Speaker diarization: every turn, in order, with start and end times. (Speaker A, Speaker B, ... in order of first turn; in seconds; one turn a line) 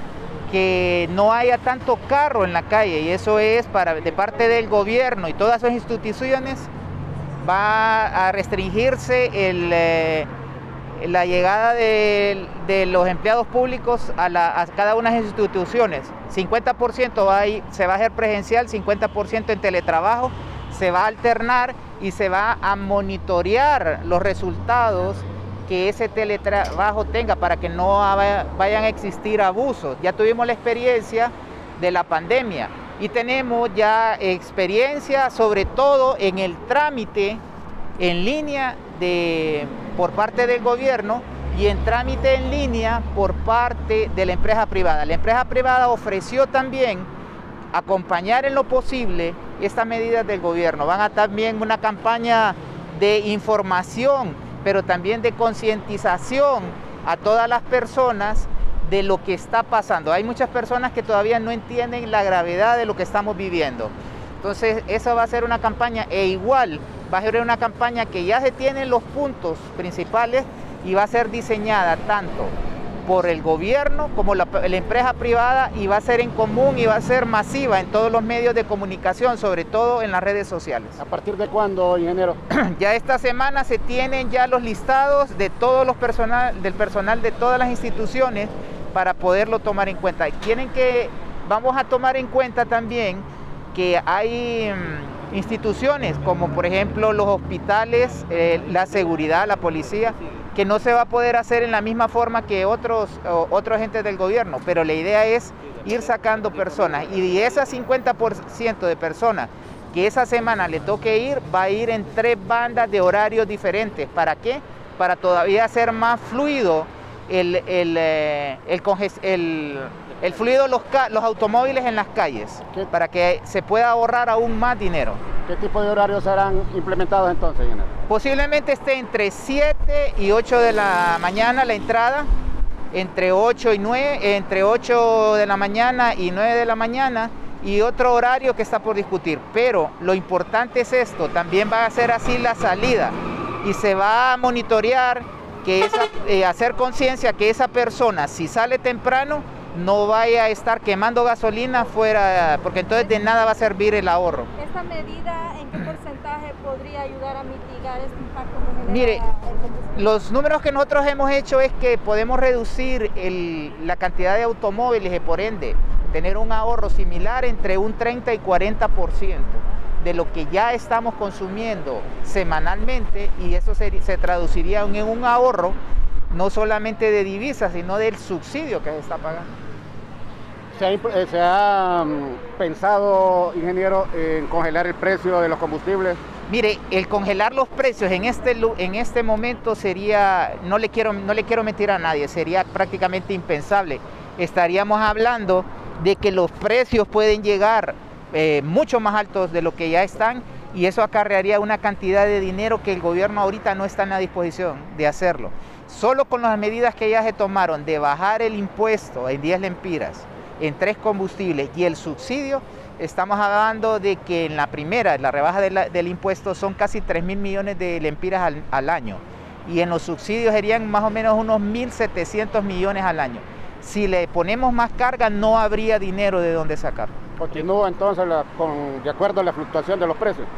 Speaker A: 0.5-6.7
Speaker A: 7.4-10.3
Speaker A: 10.9-37.4
Speaker A: 38.0-47.1
Speaker A: 47.7-72.5
Speaker A: 73.0-81.0
Speaker B: 81.0-82.4
Speaker A: 82.5-125.2
Speaker B: 125.5-127.9
Speaker A: 128.1-132.3
Speaker A: 132.9-154.5
Speaker C: 154.6-159.9
Speaker A: 158.9-159.2
Speaker A: 159.9-175.8
Speaker A: 176.3-179.5
Speaker B: 180.7-186.2
Speaker A: 186.5-227.1
Speaker B: 227.4-230.5